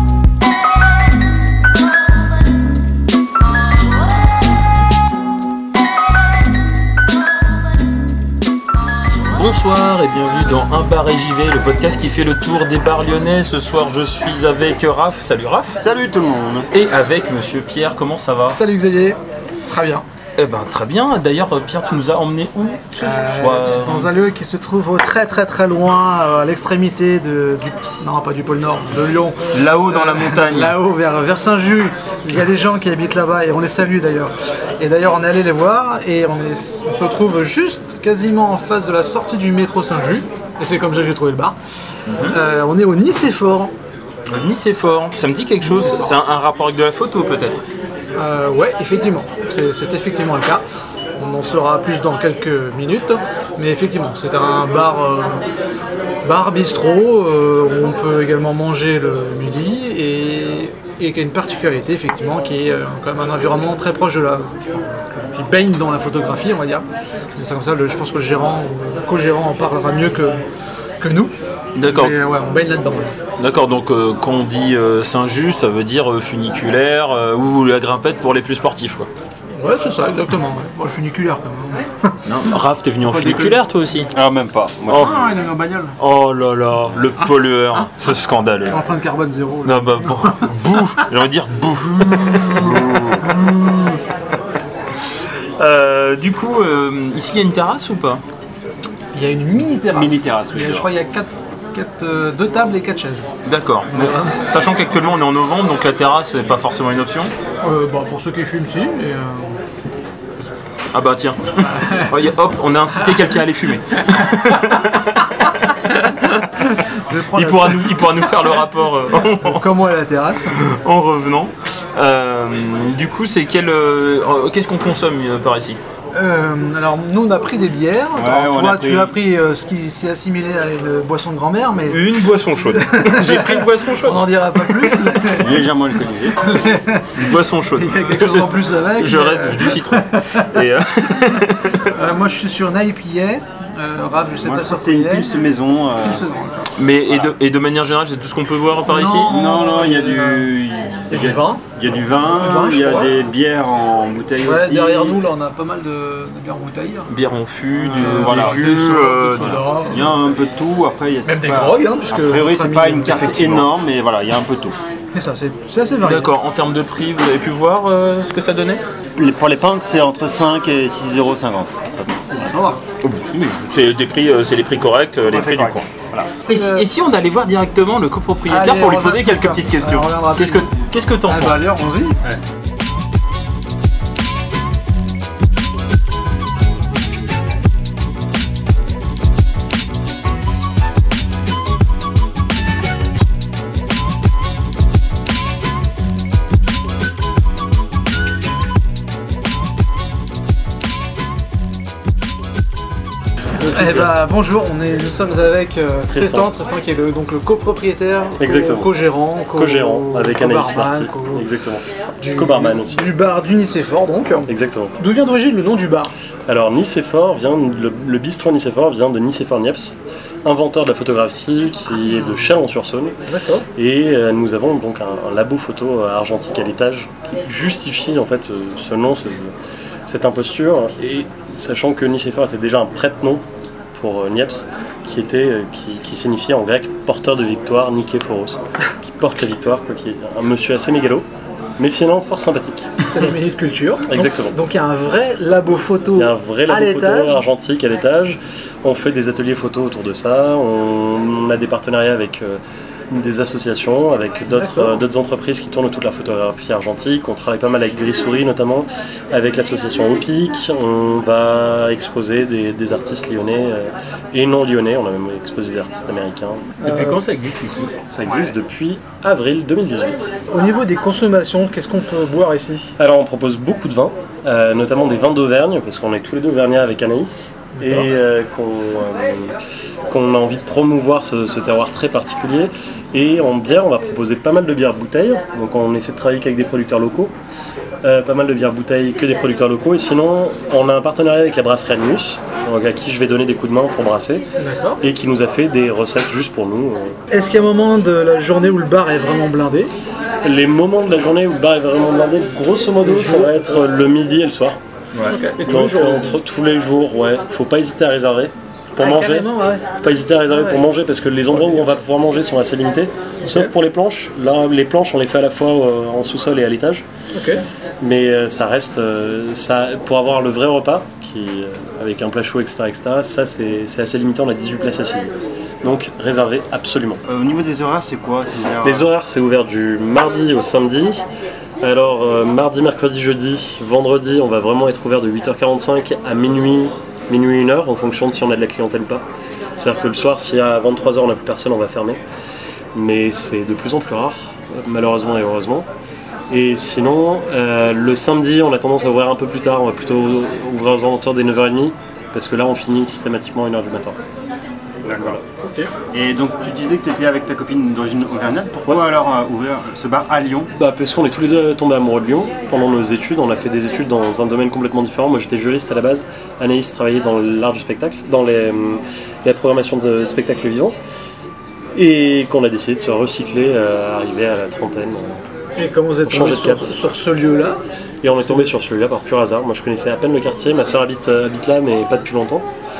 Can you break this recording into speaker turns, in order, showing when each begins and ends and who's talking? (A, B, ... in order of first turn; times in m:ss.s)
0:09.2-0:15.8 A
0:15.8-0:16.7 B
0:16.7-0:18.6 A
0:18.6-0:19.2 C
0:19.7-0:20.0 C
0:20.4-0:24.1 A
0:23.0-0:41.6 C
0:29.5-0:30.8 A
0:42.0-0:42.4 A
0:42.3-0:43.7 C
0:44.3-0:47.6 A
0:48.2-0:50.6 C
0:51.2-0:55.4 C
0:56.2-1:10.4 C
1:11.0-1:11.3 C
1:11.7-1:12.2 A
1:12.0-1:13.1 C
1:13.4-1:19.1 A
1:19.6-1:22.1 C
1:22.2-1:24.1 A
1:23.1-1:23.6 C
1:24.1-1:25.2 B
1:24.8-1:25.2 A
1:25.1-1:25.9 C
1:26.0-1:28.8 A
1:28.7-1:30.2 C
1:29.6-1:33.6 A
1:35.6-1:38.2 A
1:39.1-1:43.3 C
1:39.9-1:40.9 B
1:43.4-1:47.3 A
1:47.6-1:49.6 C
1:50.9-1:59.7 A
1:51.7-1:52.1 C
1:57.1-1:57.8 C
1:59.5-2:00.5 C
2:00.4-2:05.8 A
2:06.1-2:12.0 C
2:08.1-2:09.2 B
2:11.9-2:15.5 A
2:12.7-2:15.3 C
2:15.3-2:16.5 B
2:16.4-2:17.1 C
2:17.1-2:22.0 A
2:17.8-2:20.4 C
2:22.0-2:25.3 C
2:24.4-2:26.2 B
2:26.2-2:26.7 C
2:26.7-2:29.5 A
2:29.0-2:30.4 C
2:29.2-2:35.2 B
2:31.1-2:31.6 C
2:32.2-2:33.0 C
2:34.5-2:37.0 C
2:37.0-2:39.8 A
2:37.8-2:40.0 C
2:38.0-2:38.7 B
2:39.8-2:44.8 B
2:41.3-2:43.5 C
2:45.1-2:46.3 C
2:46.0-2:48.8 A
2:49.2-2:52.0 B
2:52.3-2:52.8 C
2:53.0-2:55.8 A
2:55.3-2:56.3 B
2:56.4-2:56.8 C
2:56.5-3:01.7 A
2:58.6-3:00.5 C
3:01.4-3:02.2 C
3:23.6-3:24.2 D
3:23.7-3:29.7 C
3:26.1-3:26.6 D
3:28.4-3:33.3 D
3:30.3-3:30.9 C
3:32.4-3:34.4 C
3:34.5-3:35.0 D
3:35.0-3:36.1 C
3:36.5-3:49.5 D
3:50.1-4:01.3 D
4:01.8-4:03.3 D
4:03.2-4:07.3 C
4:04.1-4:04.6 D
4:06.1-4:26.7 D
4:26.8-4:28.0 A
4:28.1-4:30.4 D
4:30.6-4:32.9 C
4:33.0-4:47.3 D
4:48.0-4:57.2 D
4:57.3-4:59.9 C
5:00.4-5:04.8 D
5:05.6-5:17.4 D
5:09.0-5:09.4 C
5:18.0-5:27.2 D
5:27.2-5:29.1 B
5:28.8-5:31.2 D
5:31.8-5:39.2 D
5:39.8-5:42.2 D
5:42.9-5:45.9 D
5:46.5-5:54.2 D
5:55.0-5:55.4 B
5:55.1-5:55.9 D
5:56.1-6:00.7 B
6:00.8-6:11.0 D
6:11.9-6:15.4 D
6:15.9-6:16.4 C
6:16.2-6:17.0 D
6:17.2-6:17.8 C
6:18.2-6:22.6 D